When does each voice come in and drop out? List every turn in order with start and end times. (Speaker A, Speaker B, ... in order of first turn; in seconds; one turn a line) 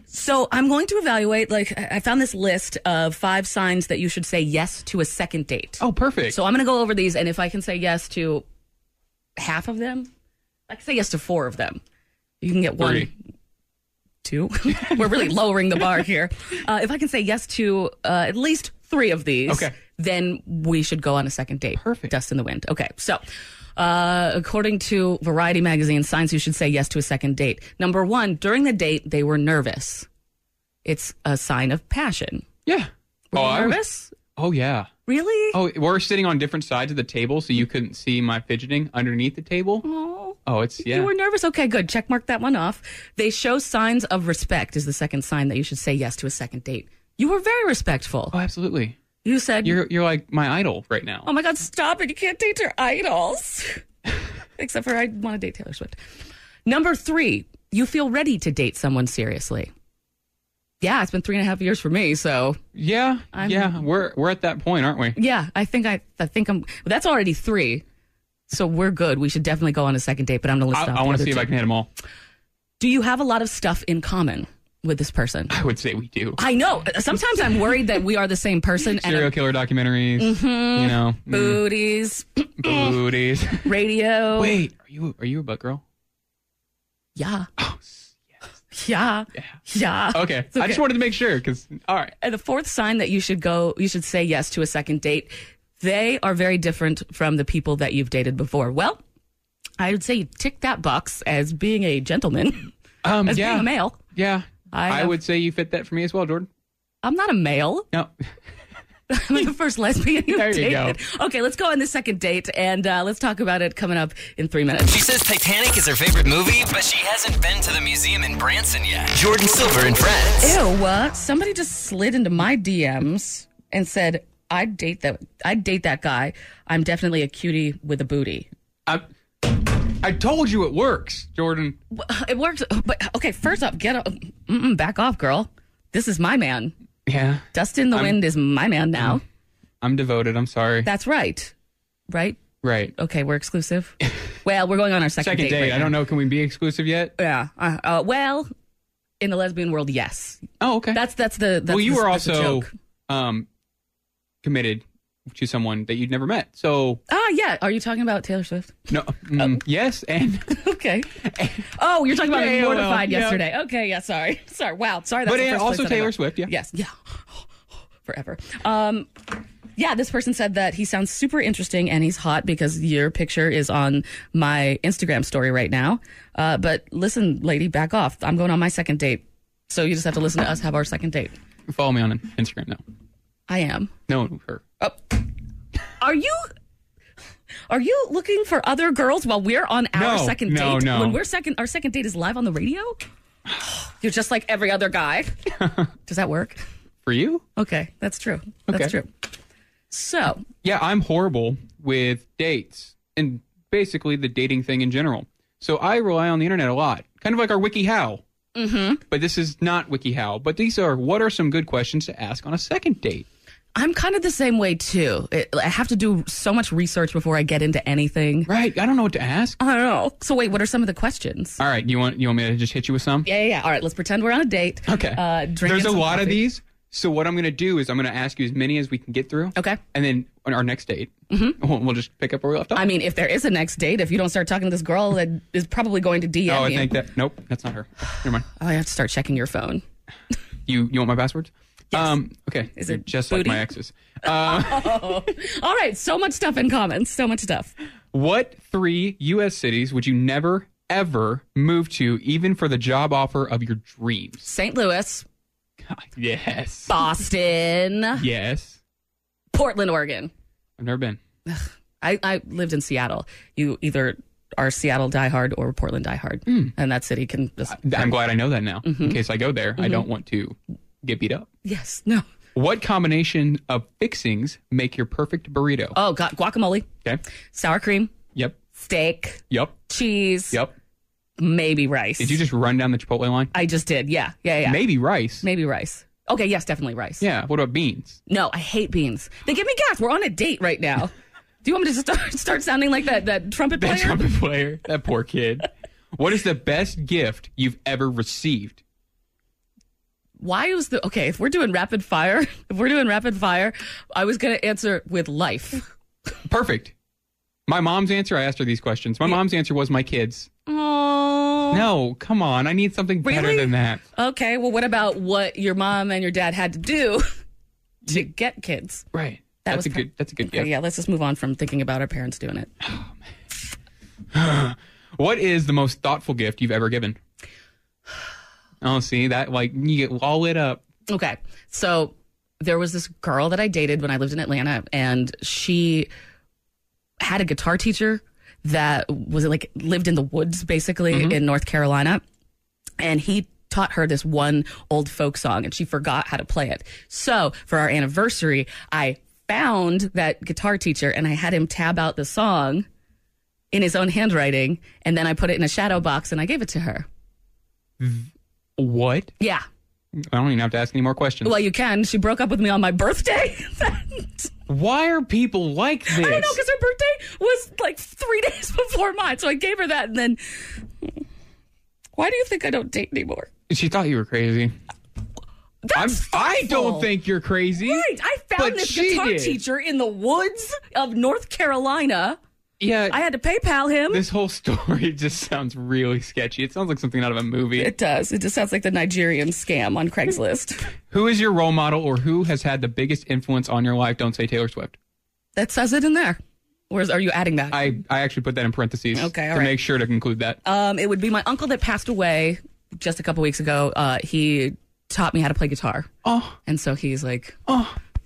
Speaker A: 0.1-8.4
Speaker B: 5.8-6.4
Speaker A: 9.4-10.1
Speaker A: 10.7-11.8
Speaker A: 12.4-13.1
Speaker B: 12.8-13.1
Speaker A: 14.2-23.2
Speaker B: 14.8-15.1
Speaker B: 19.5-19.7
Speaker B: 21.8-22.1
Speaker A: 23.8-30.1
Speaker A: 30.8-32.5
Speaker B: 32.6-33.8
Speaker A: 33.3-34.1
Speaker B: 34.4-34.9
Speaker A: 35.1-35.6
Speaker B: 35.5-39.8
Speaker A: 39.8-48.3
Speaker B: 40.5-41.1
Speaker B: 48.3-49.0
Speaker A: 49.2-49.8
Speaker B: 49.6-51.3
Speaker A: 51.2-53.8
Speaker A: 54.6-56.0
Speaker A: 56.6-59.7
Speaker A: 60.8-62.6
Speaker B: 62.7-65.2
Speaker A: 63.3-63.8
Speaker A: 65.2-67.8
Speaker A: 68.5-71.5
Speaker B: 70.7-71.9
Speaker A: 72.8-75.5
Speaker B: 75.5-76.4
Speaker A: 76.4-79.3
Speaker B: 78.9-81.6
Speaker A: 80.2-82.9
Speaker B: 82.6-83.7
Speaker A: 83.6-84.6
Speaker B: 84.3-85.8
Speaker A: 87.2-87.5
Speaker B: 87.6-88.1
Speaker A: 88.7-90.8
Speaker B: 90.1-92.1
Speaker A: 92.2-99.0
Speaker A: 99.8-102.7
Speaker B: 103.0-106.5
Speaker A: 103.2-104.0
Speaker A: 104.7-105.2
Speaker A: 107.0-107.9
Speaker A: 109.1-115.0
Speaker B: 110.3-111.0
Speaker C: 114.8-120.6
Speaker A: 120.4-128.5
Speaker B: 128.9-131.8
Speaker A: 131.9-136.7
Speaker B: 137.1-138.2
Speaker A: 137.5-139.2
Speaker B: 139.8-140.9
Speaker A: 140.8-141.5
Speaker A: 142.1-142.4
Speaker B: 142.6-142.9
Speaker A: 142.9-145.9
Speaker B: 145.2-147.1
Speaker A: 147.2-148.5
Speaker A: 149.2-152.7
Speaker B: 150.6-151.0
Speaker B: 151.7-153.5
Speaker B: 154.4-157.0
Speaker A: 157.1-159.6
Speaker B: 158.9-160.6
Speaker A: 160.5-167.5
Speaker B: 161.2-163.4
Speaker B: 165.2-166.5
Speaker A: 168.0-169.1
Speaker A: 169.8-181.3
Speaker B: 181.7-182.8
Speaker A: 183.5-183.9
Speaker B: 184.1-184.6
Speaker A: 184.8-185.2
Speaker A: 186.0-186.5
Speaker A: 187.7-193.0
Speaker B: 189.9-191.2
Speaker A: 193.8-195.4
Speaker B: 195.6-195.8
Speaker A: 196.1-196.6
Speaker B: 197.0-197.4
Speaker A: 197.6-199.1
Speaker A: 199.9-200.4
Speaker B: 200.6-208.2
Speaker A: 208.6-209.0
Speaker B: 209.1-213.2
Speaker A: 213.8-218.5
Speaker B: 218.5-219.6
Speaker A: 219.6-221.6
Speaker B: 221.6-223.3
Speaker A: 223.2-226.4
Speaker B: 224.9-232.9
Speaker A: 231.3-231.6
Speaker A: 232.7-236.9
Speaker B: 236.5-238.5
Speaker A: 238.6-239.8
Speaker B: 240.7-245.2
Speaker A: 242.8-243.6
Speaker A: 244.2-247.7
Speaker B: 248.1-254.5
Speaker A: 254.4-255.2
Speaker B: 255.8-256.9
Speaker A: 256.9-258.2
Speaker B: 258.2-258.8
Speaker A: 259.5-260.3
Speaker B: 260.8-261.2
Speaker A: 261.4-268.2
Speaker B: 266.5-266.7
Speaker B: 267.7-271.5
Speaker A: 268.8-269.2
Speaker A: 269.8-270.1
Speaker A: 271.6-272.2
Speaker B: 272.5-275.9
Speaker A: 275.9-276.9
Speaker A: 277.5-278.1
Speaker A: 278.7-280.6
Speaker B: 279.5-279.8
Speaker A: 281.4-282.4
Speaker B: 282.2-283.5
Speaker A: 283.5-284.8
Speaker B: 284.6-285.4
Speaker A: 285.4-287.2
Speaker B: 287.2-288.2
Speaker A: 288.3-291.1
Speaker A: 291.6-294.2
Speaker B: 293.8-298.8
Speaker A: 300.4-305.9
Speaker B: 306.5-306.9
Speaker B: 307.7-310.5
Speaker A: 310.7-311.9
Speaker B: 311.7-314.0
Speaker A: 313.2-317.3
Speaker A: 318.1-319.0
Speaker B: 319.1-320.7
Speaker A: 319.6-322.7
Speaker B: 322.8-323.1
Speaker B: 324.3-327.2
Speaker B: 328.8-330.8
Speaker A: 331.1-336.1
Speaker A: 337.2-342.2
Speaker B: 341.1-341.4
Speaker A: 343.0-352.9
Speaker A: 353.7-357.1
Speaker B: 358.0-359.3
Speaker A: 359.4-359.6
Speaker B: 360.2-361.6
Speaker A: 361.4-364.5
Speaker B: 364.7-366.6
Speaker A: 366.1-371.1
Speaker A: 372.1-373.5
Speaker B: 373.7-374.7
Speaker A: 375.8-377.1
Speaker B: 375.9-379.6
Speaker A: 377.8-382.4
Speaker B: 382.8-383.2
Speaker A: 383.1-384.2
Speaker B: 384.1-387.9
Speaker A: 387.8-390.9
Speaker B: 391.1-394.9
Speaker A: 395.6-397.9
Speaker B: 397.7-400.6
Speaker A: 399.1-399.7
Speaker A: 400.6-406.1
Speaker B: 406.2-406.6
Speaker A: 406.6-407.6
Speaker B: 407.7-408.0